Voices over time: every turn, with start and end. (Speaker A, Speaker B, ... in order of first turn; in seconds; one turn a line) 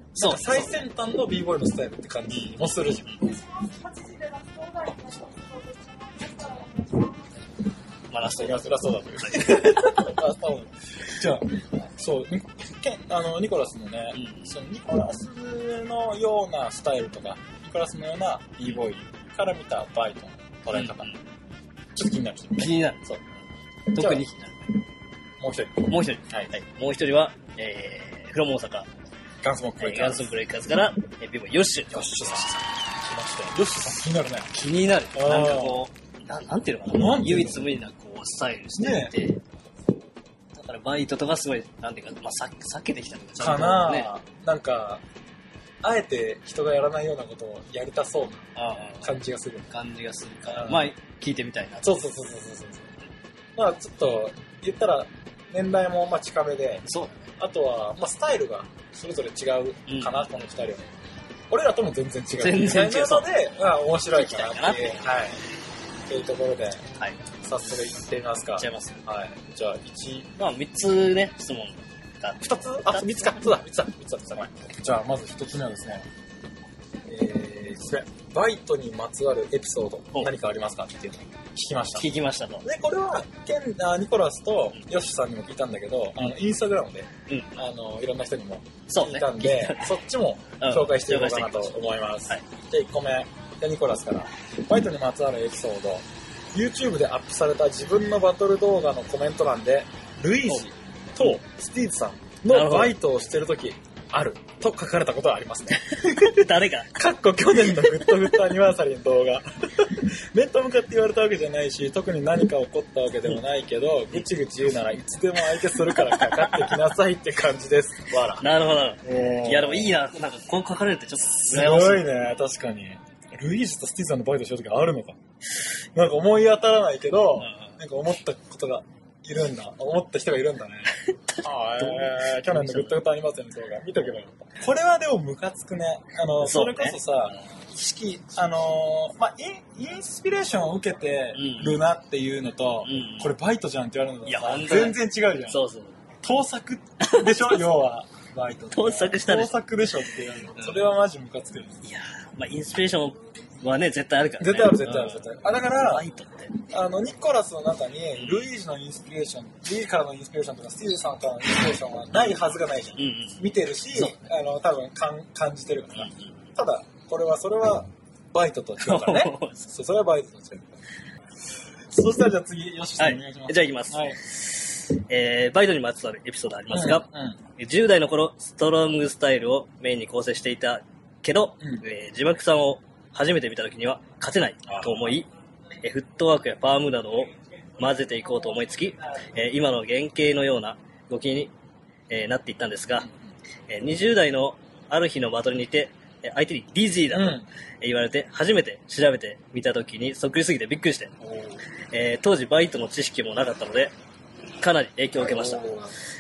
Speaker A: 0.1-5.5
Speaker B: 0.2-0.7
Speaker B: 2.3-3.4
Speaker A: 6.2-7.0
Speaker B: 8.1-10.2
Speaker A: 8.3-21.1
Speaker B: 14.1-14.6
Speaker B: 20.7-21.2
Speaker A: 21.9-23.2
Speaker B: 22.6-23.2
Speaker B: 23.9-24.7
Speaker A: 23.9-24.2
Speaker A: 25.4-26.6
Speaker B: 25.9-28.9
Speaker A: 29.4-30.3
Speaker B: 29.8-32.5
Speaker A: 31.9-34.5
Speaker B: 34.5-39.4
Speaker A: 35.1-35.8
Speaker A: 36.9-37.7
Speaker A: 38.8-39.1
Speaker B: 40.6-44.1
Speaker A: 43.4-45.0
Speaker A: 45.8-48.5
Speaker B: 48.6-49.1
Speaker A: 49.0-49.7
Speaker B: 49.7-51.9
Speaker A: 50.5-50.9
Speaker A: 51.8-52.9
Speaker A: 53.6-60.9
Speaker B: 56.9-57.2
Speaker B: 59.9-60.2
Speaker A: 61.5-65.4
Speaker B: 62.4-63.3
Speaker B: 64.1-65.0
Speaker A: 66.1-66.9
Speaker A: 67.4-70.3
Speaker B: 68.6-69.0
Speaker B: 70.4-73.5
Speaker A: 72.4-76.1
Speaker A: 77.1-82.1
Speaker B: 82.0-82.7
Speaker A: 82.6-118.5
Speaker B: 87.3-87.6
Speaker B: 88.9-89.9
Speaker B: 90.6-92.4
Speaker B: 102.5-103.0
Speaker B: 105.8-107.0
Speaker B: 107.7-108.3
Speaker B: 115.6-116.8
Speaker B: 118.4-122.2
Speaker A: 119.0-120.0
Speaker A: 121.2-125.2
Speaker A: 125.9-145.6
Speaker B: 127.4-127.8
Speaker B: 130.9-133.0
Speaker B: 136.4-137.4
Speaker B: 141.3-141.8
Speaker B: 142.8-143.3
Speaker B: 144.3-146.0
Speaker A: 146.2-151.8
Speaker B: 147.0-147.7
Speaker B: 148.7-149.6
Speaker B: 150.5-150.8
Speaker B: 151.8-156.6
Speaker A: 154.4-156.1
Speaker A: 156.7-170.8
Speaker B: 158.2-158.5
Speaker B: 162.2-162.5
Speaker B: 163.0-164.2
Speaker B: 166.0-166.5
Speaker B: 168.8-169.7
Speaker A: 171.9-174.2
Speaker B: 173.0-185.3
Speaker A: 176.7-177.4
Speaker A: 184.7-185.2
Speaker B: 185.8-191.5
Speaker B: 192.1-193.1
Speaker B: 193.7-201.2
Speaker A: 197.1-197.5
Speaker A: 201.2-201.6
Speaker B: 201.9-203.9
Speaker B: 204.6-205.7
Speaker A: 205.2-205.9